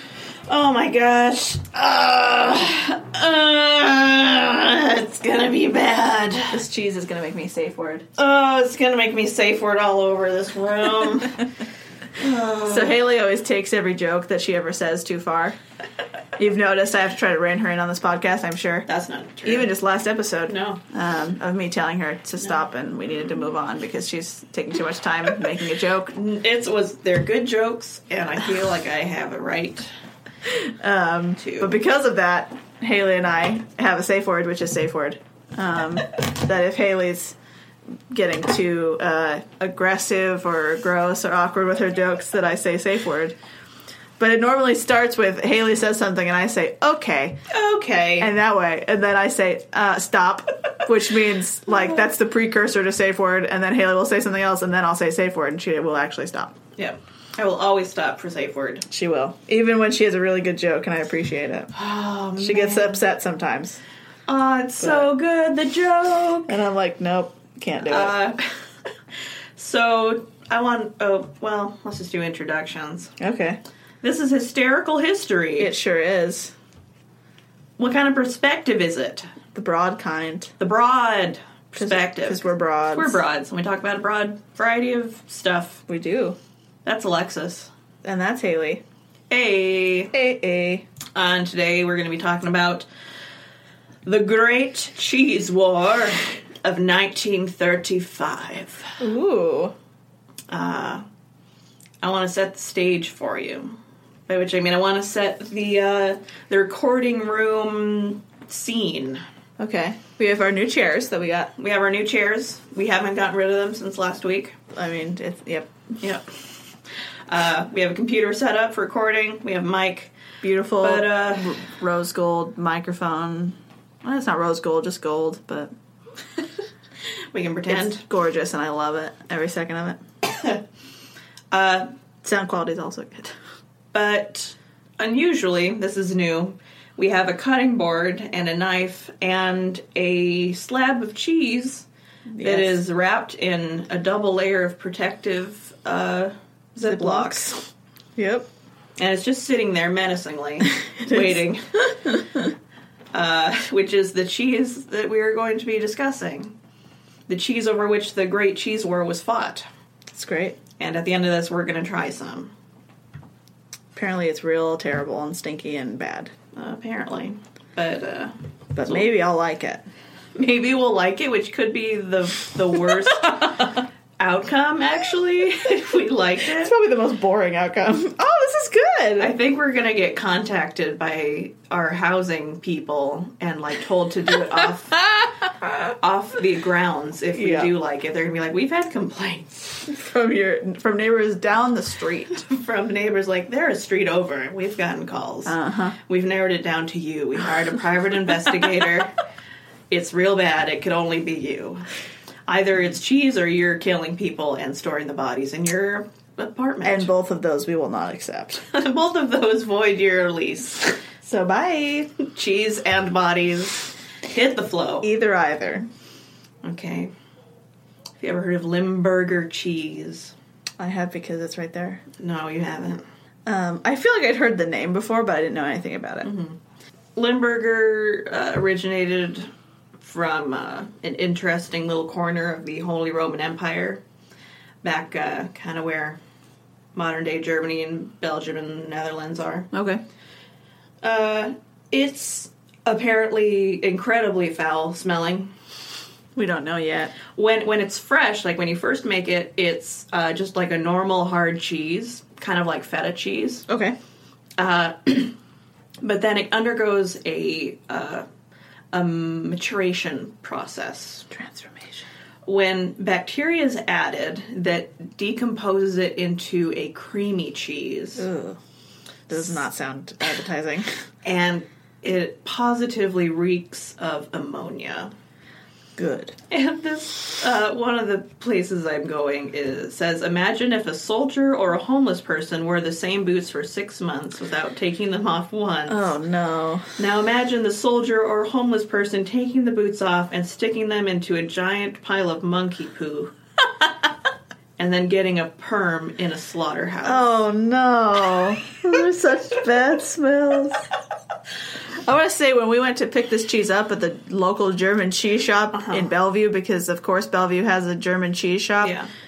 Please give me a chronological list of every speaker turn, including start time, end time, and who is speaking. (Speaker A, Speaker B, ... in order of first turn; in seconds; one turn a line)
Speaker A: 0.5-6.6
Speaker B: 6.5-8.1
Speaker A: 8.2-11.4
Speaker A: 12.2-13.0
Speaker B: 12.7-15.6
Speaker B: 16.4-18.9
Speaker A: 18.9-19.7
Speaker B: 19.4-26.2
Speaker A: 20.5-20.8
Speaker A: 26.1-29.9
Speaker B: 30.5-37.4
Speaker A: 31.4-31.8
Speaker B: 38.1-43.4
Speaker B: 44.2-47.4
Speaker A: 47.5-48.3
Speaker B: 48.2-56.6
Speaker A: 56.8-58.9
Speaker B: 58.9-61.7
Speaker A: 61.7-63.0
Speaker B: 62.4-63.8
Speaker A: 64.3-66.6
Speaker B: 64.8-65.1
Speaker B: 66.5-68.2
Speaker A: 67.9-68.5
Speaker A: 69.6-73.1
Speaker B: 73.2-73.6
Speaker A: 74.0-75.7
Speaker B: 75.6-76.5
Speaker A: 77.8-79.3
Speaker B: 79.5-80.5
Speaker A: 80.6-85.8
Speaker B: 81.8-83.2
Speaker B: 85.9-86.4
Speaker A: 86.8-87.7
Speaker B: 88.0-88.8
Speaker A: 89.3-90.1
Speaker B: 90.1-90.9
Speaker A: 91.1-92.9
Speaker A: 94.1-99.0
Speaker B: 99.0-99.7
Speaker A: 100.5-101.0
Speaker A: 102.0-109.2
Speaker B: 109.6-111.5
Speaker A: 111.6-114.6
Speaker B: 114.7-115.7
Speaker A: 116.0-116.3
Speaker A: 117.3-120.1
Speaker B: 120.4-125.7
Speaker A: 120.8-121.6
Speaker A: 127.3-128.1
Speaker B: 127.7-130.0
Speaker A: 131.5-131.9
Speaker B: 132.2-133.3
Speaker A: 133.9-141.9
Speaker B: 142.3-142.8
Speaker A: 142.4-147.7
Speaker B: 146.8-147.5
Speaker B: 148.2-148.5
Speaker A: 149.0-152.2
Speaker B: 150.6-152.4
Speaker A: 153.1-156.6
Speaker A: 157.3-159.7
Speaker B: 160.1-160.6
Speaker A: 160.8-162.5
Speaker B: 163.9-166.3
Speaker A: 166.5-168.3
Speaker B: 168.8-169.8
Speaker A: 170.4-176.7
Speaker B: 176.5-179.3
Speaker A: 179.2-185.1
Speaker B: 185.2-185.5
Speaker A: 185.9-189.9
Speaker B: 187.3-187.7
Speaker B: 189.9-192.4
Speaker A: 192.4-199.1
Speaker B: 195.5-195.9
Speaker A: 199.9-201.9
Speaker A: 202.5-207.1
Speaker B: 206.8-208.6
Speaker A: 208.7-211.0
Speaker B: 211.2-212.1
Speaker A: 212.2-215.1
Speaker B: 215.0-215.9
Speaker A: 216.6-217.1
Speaker A: 218.2-220.3
Speaker B: 220.8-222.0
Speaker A: 222.2-223.0
Speaker B: 223.5-226.3
Speaker A: 226.2-226.6
Speaker A: 227.2-234.0
Speaker A: 234.8-236.2
Speaker A: 236.9-239.7
Speaker B: 239.7-240.0
Speaker A: 241.0-245.5
Speaker B: 246.3-247.1
Speaker A: 247.3-253.7
Speaker B: 253.7-254.0
Speaker A: 254.6-255.3
Speaker A: 256.0-258.2
Speaker A: 258.9-261.3
Speaker B: 261.3-262.1
Speaker A: 262.5-268.3
Speaker B: 268.2-268.6
Speaker B: 269.3-270.9
Speaker A: 271.2-275.1
Speaker B: 276.0-276.3
Speaker A: 276.5-286.1
Speaker B: 285.9-286.9
Speaker A: 287.0-293.3
Speaker A: 294.8-297.3
Speaker B: 297.0-300.9
Speaker B: 302.0-309.0
Speaker A: 305.7-306.1
Speaker A: 308.8-309.1